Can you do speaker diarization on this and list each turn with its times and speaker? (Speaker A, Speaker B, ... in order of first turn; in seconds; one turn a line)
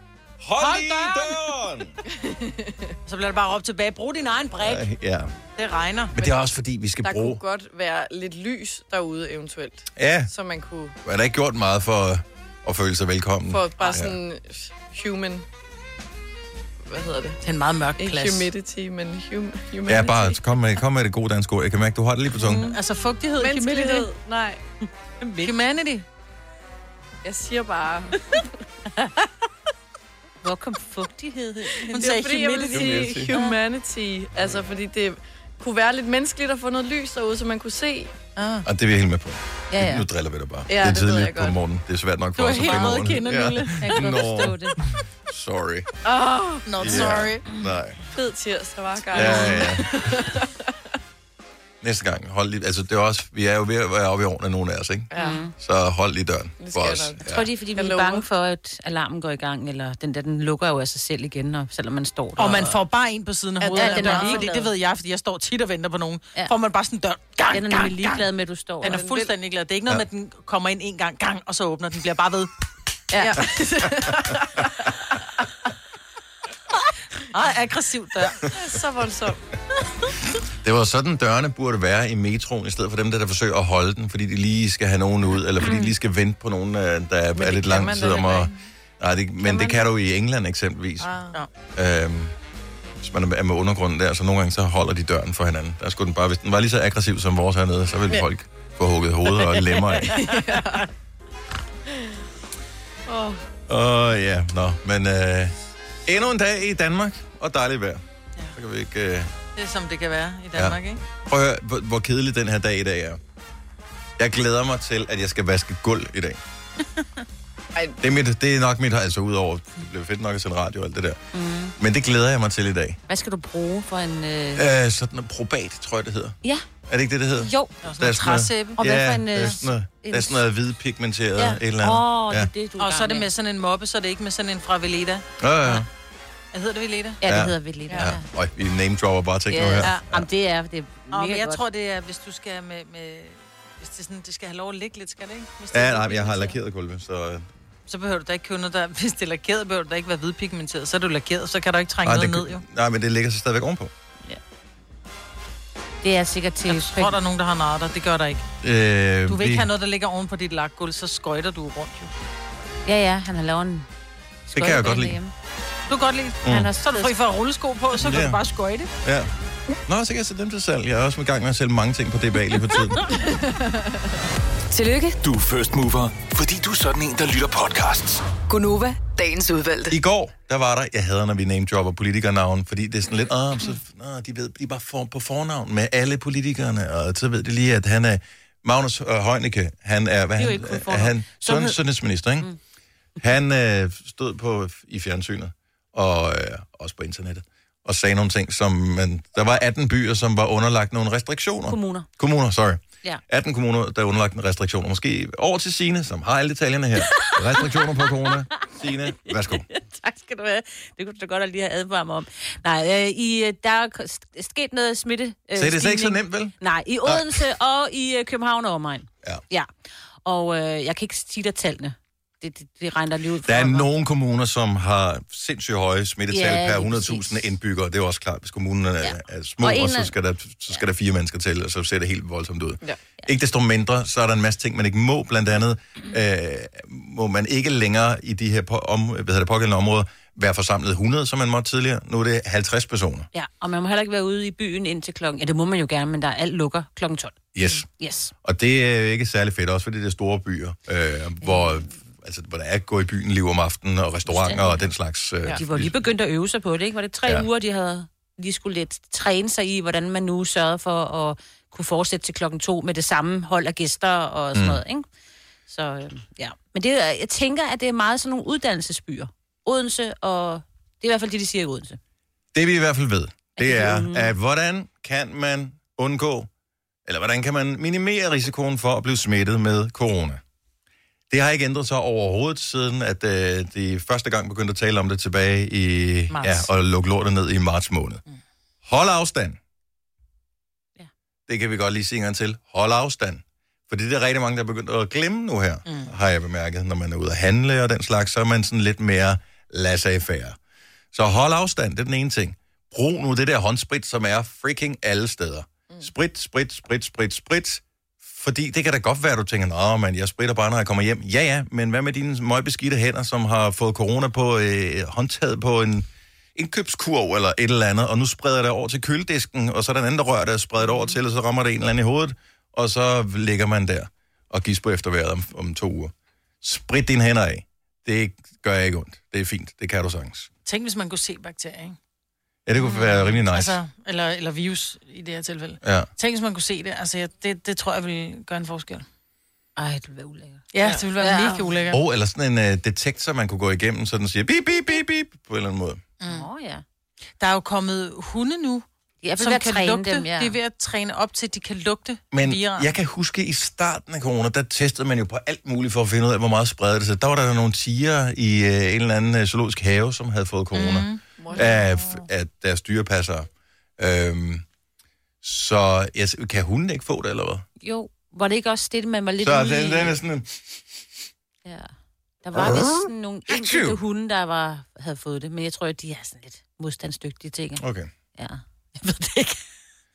Speaker A: 0.4-1.9
Speaker B: 0.6-1.4
Speaker C: 2.1-2.9
Speaker B: 3.1-4.8
Speaker A: 4.6-5.3
Speaker B: 5.6-6.1
Speaker A: 6.1-7.4
Speaker C: 6.2-6.5
Speaker C: 7.0-10.9
Speaker A: 9.9-10.3
Speaker A: 11.0-14.2
Speaker C: 13.5-15.4
Speaker C: 16.8-17.4
Speaker B: 17.4-18.5
Speaker C: 18.0-20.4
Speaker A: 19.9-22.7
Speaker C: 22.4-22.8
Speaker B: 22.5-24.1
Speaker C: 23.4-24.6
Speaker D: 25.2-25.5
Speaker B: 25.4-26.0
Speaker C: 27.2-28.4
Speaker D: 30.4-31.9
Speaker B: 31.9-33.2
Speaker C: 31.9-38.1
Speaker A: 32.7-33.4
Speaker B: 38.4-38.6
Speaker A: 38.6-44.6
Speaker D: 39.7-40.1
Speaker C: 40.7-41.6
Speaker B: 42.4-44.1
Speaker D: 43.8-44.8
Speaker A: 45.2-45.9
Speaker C: 46.0-47.3
Speaker B: 46.6-47.4
Speaker A: 46.8-48.0
Speaker C: 48.1-50.7
Speaker A: 49.1-50.2
Speaker A: 51.8-57.5
Speaker C: 55.1-55.4
Speaker D: 55.2-55.5
Speaker C: 56.6-57.2
Speaker D: 57.2-62.8
Speaker C: 57.7-58.2
Speaker B: 62.4-68.2
Speaker C: 63.6-64.5
Speaker D: 63.8-64.6
Speaker D: 67.5-69.0
Speaker C: 68.8-69.3
Speaker B: 68.8-72.5
Speaker C: 73.1-74.9
Speaker B: 77.3-78.5
Speaker C: 78.5-79.4
Speaker A: 80.6-91.2
Speaker C: 87.3-88.6
Speaker C: 91.0-91.4
Speaker A: 91.7-92.3
Speaker A: 93.0-100.3
Speaker C: 99.5-100.9
Speaker C: 103.1-103.4
Speaker A: 103.7-108.0
Speaker A: 108.5-109.3
Speaker B: 109.5-111.0
Speaker A: 110.5-113.2
Speaker A: 114.2-116.4
Speaker A: 118.0-121.2
Speaker D: 121.3-121.7
Speaker A: 121.8-123.0
Speaker D: 123.1-124.7
Speaker A: 124.5-126.3
Speaker A: 126.9-132.5
Speaker D: 127.4-127.7
Speaker B: 127.8-129.5
Speaker D: 128.8-130.4
Speaker D: 131.4-133.3
Speaker B: 132.8-135.8
Speaker A: 135.4-135.9
Speaker B: 136.5-137.2
Speaker D: 137.2-138.2
Speaker A: 137.2-140.3
Speaker D: 139.5-141.6
Speaker B: 141.1-146.6
Speaker A: 145.7-147.5
Speaker B: 147.9-152.6
Speaker A: 152.0-153.9
Speaker D: 156.0-157.2
Speaker B: 156.7-158.5
Speaker A: 158.6-159.7
Speaker B: 159.3-162.1
Speaker D: 162.8-163.9
Speaker D: 164.5-165.3
Speaker A: 164.5-165.2
Speaker B: 165.9-168.9
Speaker A: 166.4-166.7
Speaker D: 166.5-167.1
Speaker A: 168.0-168.4
Speaker A: 169.0-169.3
Speaker A: 169.8-173.1
Speaker C: 173.2-174.0
Speaker E: 174.7-175.2
Speaker F: 175.2-178.2
Speaker E: 178.5-179.9
Speaker A: 179.9-192.5
Speaker D: 190.4-191.8
Speaker A: 193.2-209.6
Speaker D: 201.7-202.1
Speaker D: 207.1-208.1
Speaker D: 209.3-219.7
Speaker A: 215.6-216.5
Speaker A: 217.0-217.4
Speaker D: 220.2-223.9
Speaker A: 223.4-243.3
Speaker D: 226.3-227.4
Speaker D: 229.0-230.1
Speaker D: 243.3-248.3
Speaker A: 247.5-247.8
Speaker A: 248.4-255.9
Speaker D: 254.3-254.8
Speaker D: 255.5-265.1
Speaker A: 264.5-264.8
Speaker D: 265.7-272.0
Speaker A: 272.5-276.5
Speaker D: 273.6-274.3
Speaker A: 277.1-280.4
Speaker A: 281.3-288.2
Speaker B: 286.3-286.7
Speaker A: 288.8-289.6
Speaker A: 291.5-300.6
Speaker B: 295.9-296.1
Speaker A: 301.1-330.5
Speaker B: 330.6-332.0
Speaker A: 332.6-333.8
Speaker B: 332.9-339.0
Speaker A: 335.8-336.1
Speaker D: 339.8-341.6
Speaker B: 340.7-342.0
Speaker A: 341.9-346.0
Speaker B: 346.2-346.4
Speaker D: 346.2-346.8
Speaker B: 347.4-348.8
Speaker D: 349.2-350.6
Speaker B: 349.4-352.9
Speaker A: 352.3-364.6
Speaker B: 360.7-361.2
Speaker C: 361.4-361.8
Speaker A: 365.4-367.6
Speaker D: 367.8-370.2
Speaker A: 369.4-370.8
Speaker D: 371.6-371.9
Speaker D: 372.4-377.8
Speaker A: 372.6-374.0
Speaker A: 377.8-378.1
Speaker D: 378.4-379.6